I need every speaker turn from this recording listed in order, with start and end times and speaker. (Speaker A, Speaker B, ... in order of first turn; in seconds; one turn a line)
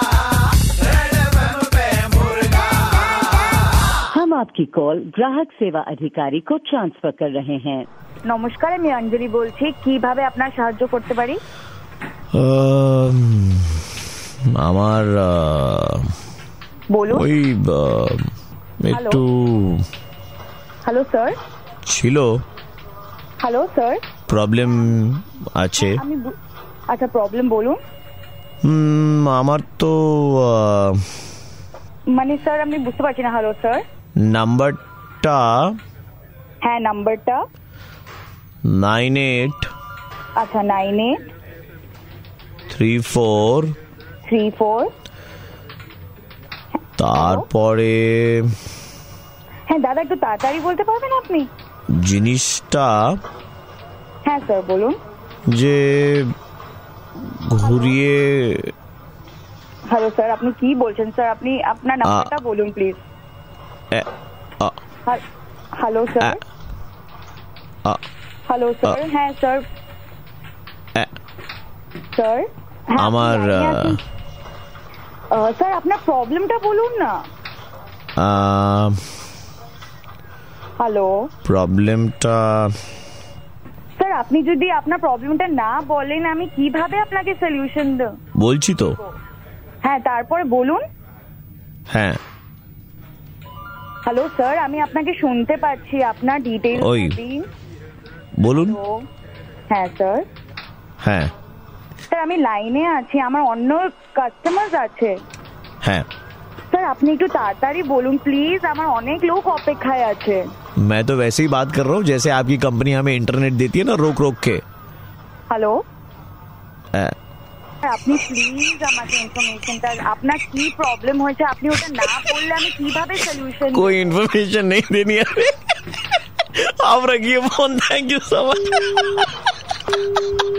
Speaker A: 4.1-7.9
Speaker B: 8.2-11.4
Speaker C: 12.3-16.1
Speaker B: 16.9-17.3
Speaker C: 17.1-18.3
Speaker C: 18.8-19.9
Speaker B: 18.9-19.2
Speaker B: 20.8-21.4
Speaker C: 21.9-22.4
Speaker B: 23.4-24.0
Speaker C: 24.3-26.0
Speaker B: 25.8-26.4
Speaker B: 26.9-27.8
Speaker C: 28.6-31.1
Speaker B: 32.1-33.8
Speaker C: 34.2-35.8
Speaker B: 36.6-37.4
Speaker C: 38.6-39.7
Speaker B: 40.4-41.2
Speaker C: 42.7-43.7
Speaker B: 44.2-44.9
Speaker C: 47.0-48.5
Speaker B: 47.1-47.5
Speaker B: 49.7-51.5
Speaker C: 51.9-53.2
Speaker B: 54.2-55.0
Speaker C: 55.5-56.3
Speaker C: 57.2-58.7
Speaker B: 57.6-58.0
Speaker B: 59.9-63.0
Speaker C: 62.0-62.3
Speaker B: 65.7-66.4
Speaker B: 68.5-69.7
Speaker B: 72.1-74.0
Speaker C: 73.0-74.0
Speaker B: 75.3-77.2
Speaker C: 78.2-79.0
Speaker B: 80.8-81.3
Speaker C: 81.4-82.8
Speaker B: 84.0-88.2
Speaker C: 88.3-89.0
Speaker B: 89.8-90.8
Speaker C: 91.9-92.2
Speaker B: 94.0-97.5
Speaker C: 96.7-97.2
Speaker C: 98.4-98.8
Speaker B: 98.6-99.0
Speaker B: 99.7-100.3
Speaker C: 101.0-101.3
Speaker B: 102.1-105.2
Speaker B: 106.7-110.5
Speaker C: 110.8-114.6
Speaker B: 115.5-115.8
Speaker B: 117.8-124.1
Speaker C: 123.7-126.0
Speaker C: 126.5-129.4